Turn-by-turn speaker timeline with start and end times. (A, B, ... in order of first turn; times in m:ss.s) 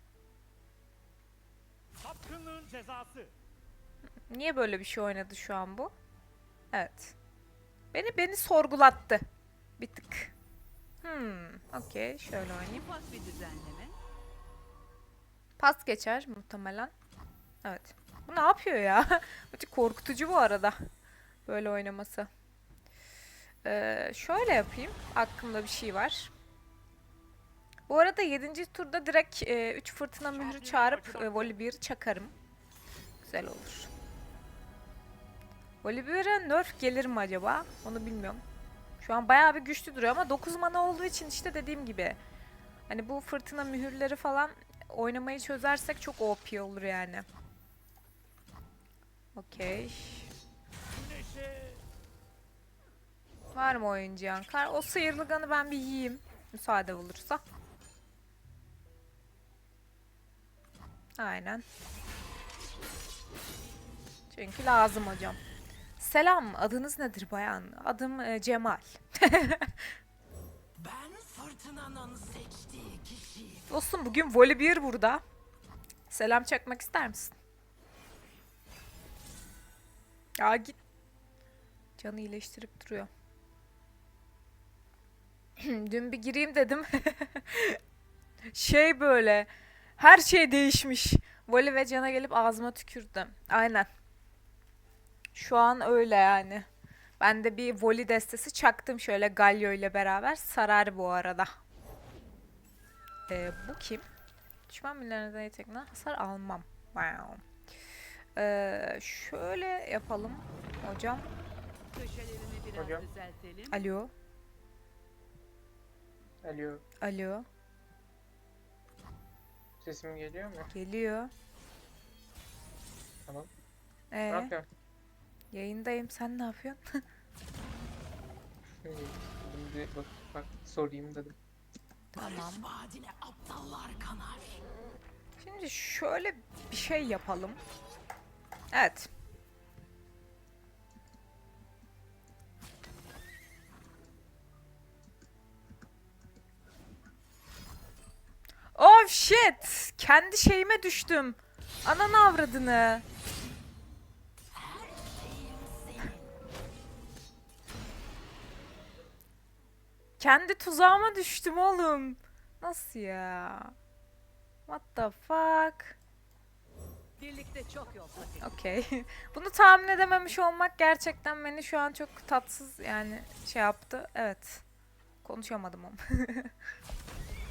0:02.0-0:03.3 A
0:04.3-0:05.9 B
0:06.7-0:07.1 B
0:07.9-0:09.2 B
0:09.8-0:10.3 B
0:11.0-0:12.8 B
0:12.7-0:14.0 C
0:15.6-0:16.9 B
0:17.6-0:20.8 B
0:21.4-0:22.3 B
0:23.6-0:26.3 B
0:27.9-0:32.3 B
0:30.3-0:31.5 A
0:33.2-0:33.9 B
0:35.8-0:38.4 B
0:39.0-0:42.2 B
0:42.9-0:47.2 B
0:49.3-0:50.3 B
0:50.9-0:51.8 A
0:53.5-0:57.4 B
1:01.2-1:01.6 B
1:04.3-1:05.4 B
1:06.0-1:09.9 B
1:10.8-1:13.6 A
1:13.7-1:15.2 B
1:16.1-1:17.3 B
1:20.4-1:20.8 B
1:22.0-1:23.1 B
1:25.6-1:27.8 B
1:28.5-1:33.9 B
1:35.3-1:36.6 B
1:37.2-1:41.5 B
1:43.3-1:44.0 B
1:44.7-1:47.4 B
1:48.4-1:51.3 B
1:51.9-1:53.8 C
1:52.7-1:53.1 D
1:53.7-1:54.1 B
1:56.4-1:56.8 D
1:57.0-1:57.4 B
1:59.8-2:00.7 D
2:00.7-2:01.3 B
2:04.1-2:04.5 B
2:04.3-2:04.6 D
2:05.5-2:06.8 B
2:08.8-2:11.4 D
2:12.1-2:12.7 B
2:12.6-2:14.6 A
2:13.9-2:14.4 C
2:15.4-2:17.6 B
2:18.7-2:19.1 B
2:28.7-2:33.0 B
2:34.5-2:36.0 A
2:40.2-2:43.7 B
2:44.7-2:46.0 B
2:47.2-2:48.4 C
2:48.4-2:54.6 B
2:55.2-2:56.5 B